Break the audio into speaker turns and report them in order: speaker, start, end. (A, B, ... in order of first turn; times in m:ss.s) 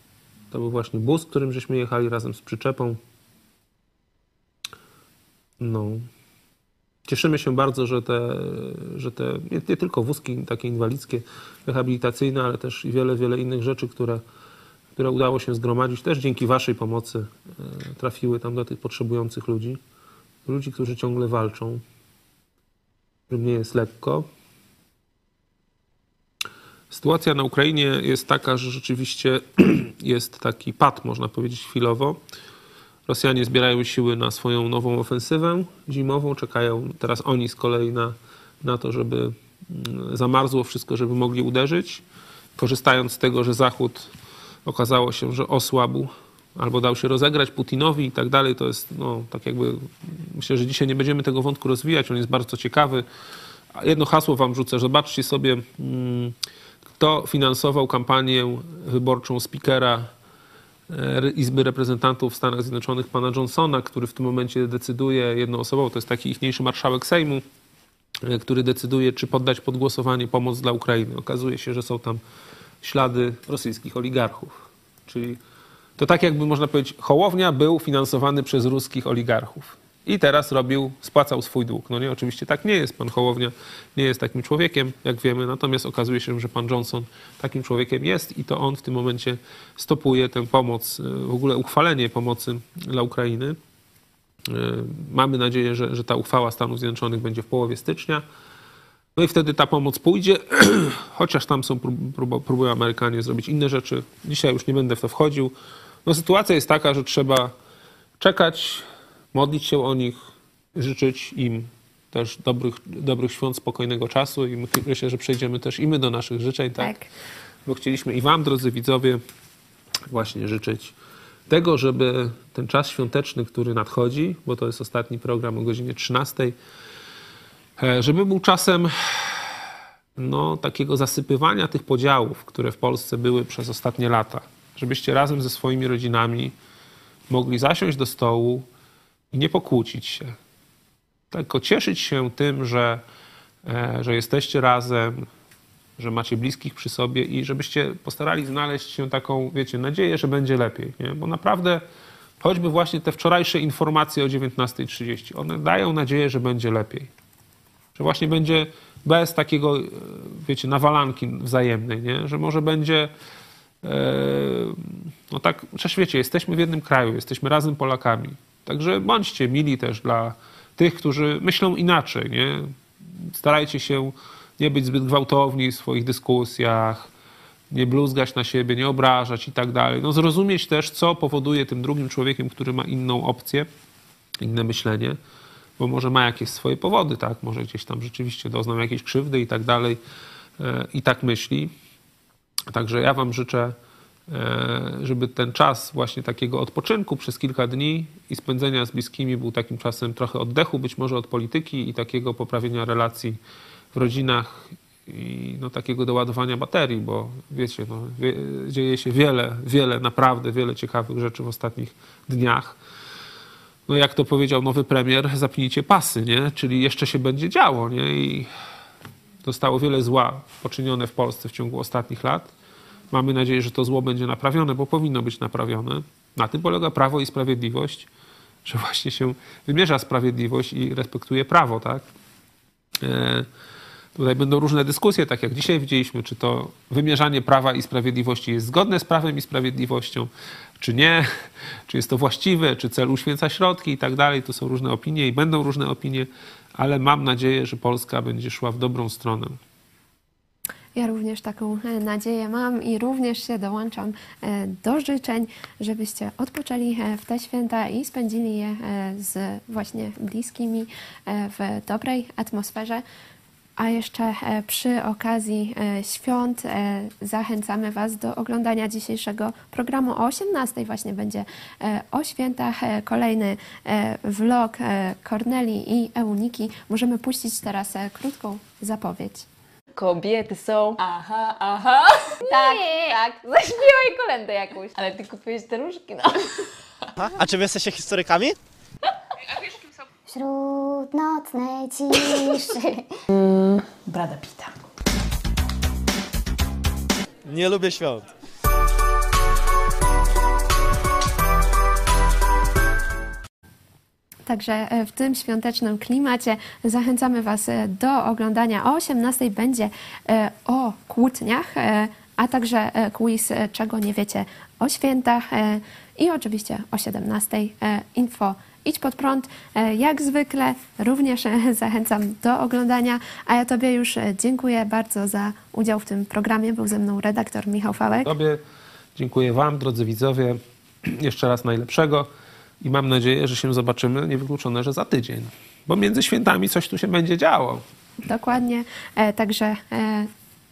0:00.5-0:03.0 A
0:05.6-0:06.1 A
0:07.1-0:14.2 A
0:15.0-0:19.8 A
0:20.4-0:21.8 A
0:23.3-0:24.3 A
0:26.9-0:32.2 A
0:33.1-0:42.0 A
0:42.6-0:44.1 A
0:44.7-0:53.1 A
0:53.8-0:56.4 A
0:57.0-1:00.1 A
1:00.9-1:07.4 A
1:08.2-1:12.2 A
1:12.8-1:14.6 A
1:15.1-1:15.4 A
1:16.0-1:33.6 A
1:34.5-1:38.2 A
1:39.2-1:45.5 A
1:46.0-1:47.5 A
1:48.2-1:50.2 A
1:50.8-1:56.9 A
1:56.8-1:57.1 B
1:57.7-1:59.2 A
2:00.1-2:01.0 A
2:01.5-2:06.6 A
2:07.8-2:09.5 A
2:10.2-2:16.5 A
2:17.3-2:18.7 A
2:19.3-2:20.4 A
2:21.3-2:23.0 A
2:23.6-2:25.3 A
2:26.0-2:31.8 A
2:32.4-2:37.1 A
2:38.0-2:43.1 A
2:43.8-2:57.1 A
2:57.7-3:03.7 A
3:04.4-3:05.2 A
3:05.8-3:10.0 A
3:10.6-3:11.7 A
3:12.7-3:13.8 A
3:14.3-3:23.4 A
3:23.9-3:32.8 A
3:33.9-3:38.5 A
3:39.4-3:42.5 A
3:43.1-3:48.1 A
3:48.6-3:52.0 A
3:53.0-3:53.5 A
3:54.2-4:00.3 A
4:00.8-4:01.3 A
4:01.9-4:09.6 A
4:11.0-4:23.0 B
4:23.8-4:39.5 B
4:40.0-4:46.6 C
4:42.6-4:43.0 D
4:47.2-4:48.6 E
4:50.3-4:53.0 D
4:53.3-4:54.7 C
4:57.5-4:58.3 E
5:04.5-5:28.3 B
5:28.2-5:28.6 A
5:29.2-5:32.3 A
5:32.8-5:37.8 A
5:38.2-5:40.3 B